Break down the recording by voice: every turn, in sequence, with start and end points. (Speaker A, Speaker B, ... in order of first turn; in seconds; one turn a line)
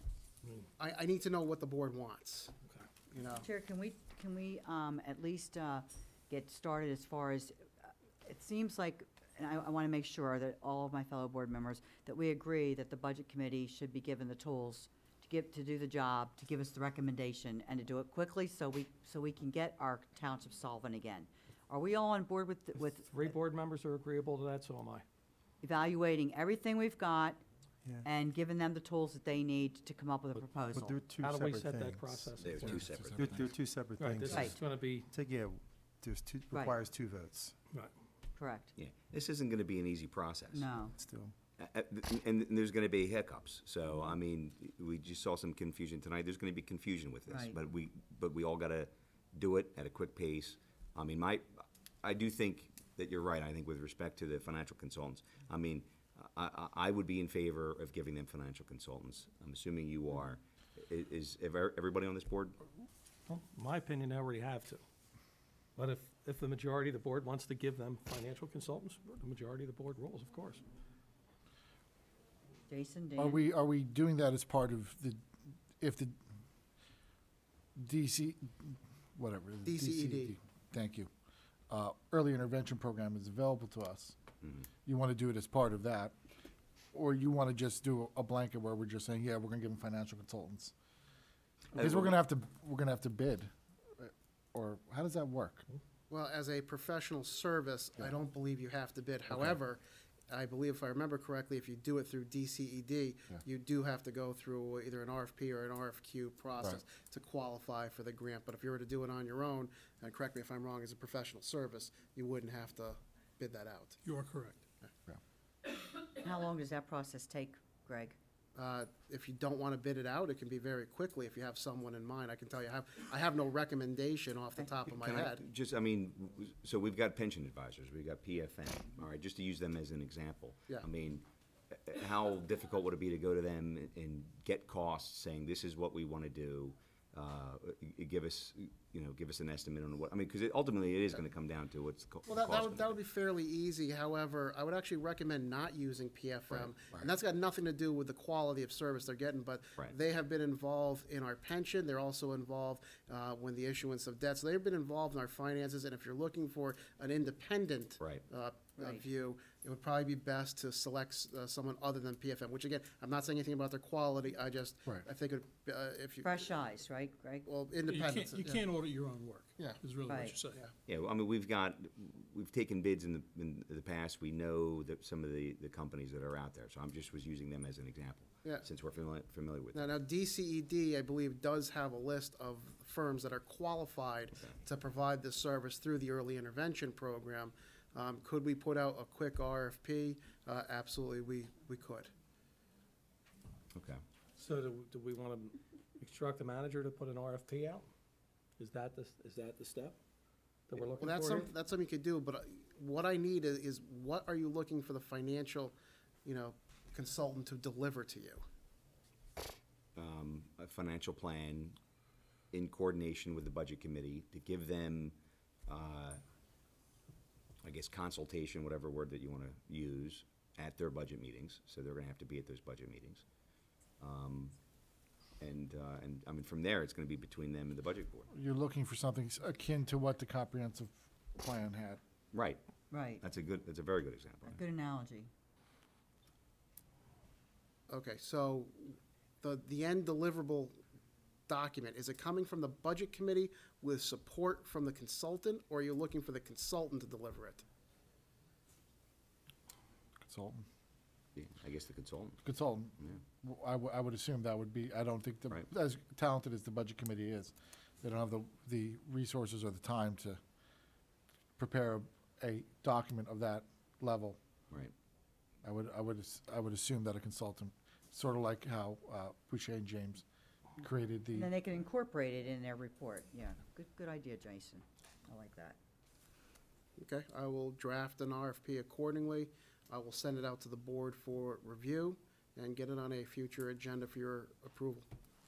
Speaker A: 0.8-2.5
Speaker A: 3.1-3.5
Speaker B: 3.4-23.3
Speaker C: 23.1-25.1
Speaker B: 25.6-27.4
Speaker D: 27.8-28.1
Speaker B: 28.1-31.0
Speaker D: 30.7-37.6
Speaker C: 31.2-32.8
Speaker E: 32.4-33.4
Speaker F: 32.9-33.5
Speaker C: 34.0-35.1
Speaker B: 34.3-34.6
Speaker B: 36.5-36.8
Speaker B: 38.4-38.7
Speaker E: 38.8-40.7
Speaker B: 40.5-41.0
Speaker D: 40.9-41.4
Speaker E: 41.6-62.6
Speaker B: 47.3-47.6
Speaker C: 63.3-64.8
Speaker C: 65.8-70.6
Speaker B: 72.7-73.4
Speaker F: 73.2-75.2
Speaker F: 75.8-76.2
Speaker F: 77.8-81.1
Speaker A: 79.7-80.3
Speaker F: 81.7-84.2
Speaker F: 84.8-86.2
Speaker F: 86.9-90.7
Speaker F: 91.7-95.7
Speaker A: 96.1-114.0
Speaker F: 99.3-99.6
Speaker C: 114.2-114.5
Speaker B: 116.2-118.2
Speaker A: 118.6-125.4
Speaker E: 124.9-143.0
Speaker A: 142.3-166.6
Speaker E: 158.0-158.2
Speaker B: 158.8-159.1
Speaker B: 166.2-167.5
Speaker A: 167.5-168.7
Speaker G: 167.9-170.6
Speaker C: 168.9-169.3
Speaker A: 169.6-169.8
Speaker C: 170.0-170.3
Speaker B: 170.1-170.4
Speaker E: 170.9-179.9
Speaker A: 179.7-192.1
Speaker E: 193.7-194.0
Speaker C: 194.4-197.9
Speaker C: 198.6-200.0
Speaker C: 200.7-201.5
Speaker A: 201.0-208.4
Speaker E: 210.0-211.8
Speaker E: 212.5-216.2
Speaker E: 217.6-223.2
Speaker E: 224.0-224.6
Speaker E: 225.4-228.3
Speaker F: 228.3-232.0
Speaker E: 232.3-232.6
Speaker B: 232.9-233.2
Speaker E: 233.2-234.6
Speaker B: 234.4-235.3
Speaker A: 237.9-240.7
Speaker A: 241.5-247.6
Speaker F: 250.3-250.7
Speaker E: 251.3-252.4
Speaker F: 252.4-260.4
Speaker F: 261.6-264.4
Speaker F: 265.6-270.2
Speaker F: 270.8-271.5
Speaker B: 271.3-275.8
Speaker A: 277.0-285.1